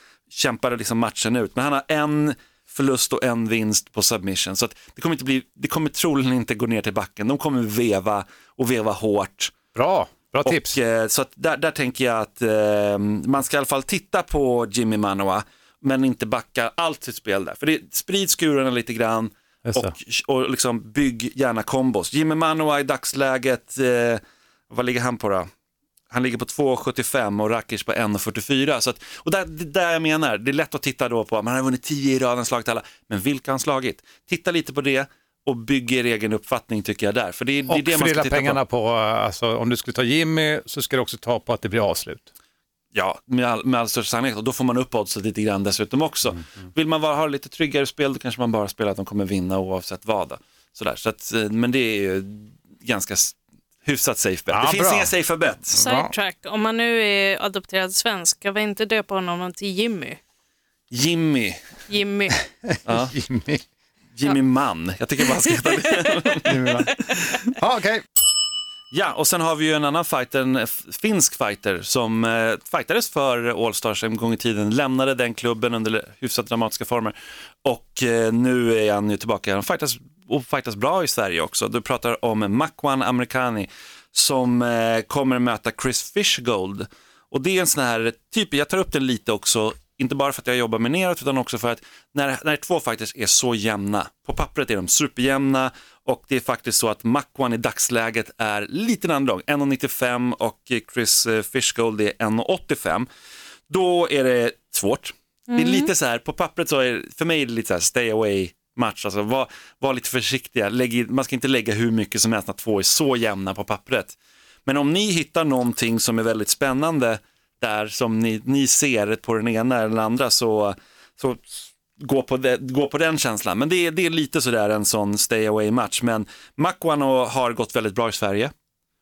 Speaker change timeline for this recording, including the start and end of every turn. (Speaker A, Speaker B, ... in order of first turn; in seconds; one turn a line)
Speaker A: 0.3-9.6
Speaker B: 9.7-10.8
Speaker A: 10.4-25.5
Speaker B: 19.6-19.9
Speaker A: 26.1-38.6
Speaker B: 37.7-42.3
Speaker A: 42.9-55.8
Speaker B: 54.5-55.1
Speaker B: 55.7-56.1
Speaker C: 55.8-60.2
Speaker A: 60.9-61.7
Speaker C: 61.9-62.4
Speaker B: 62.6-63.6
Speaker A: 62.8-63.1
Speaker A: 64.1-67.5
Speaker C: 65.3-66.1
Speaker B: 66.5-66.9
Speaker B: 67.6-68.0
Speaker A: 68.9-103.1
Speaker A: 103.7-128.5
Speaker C: 105.5-105.9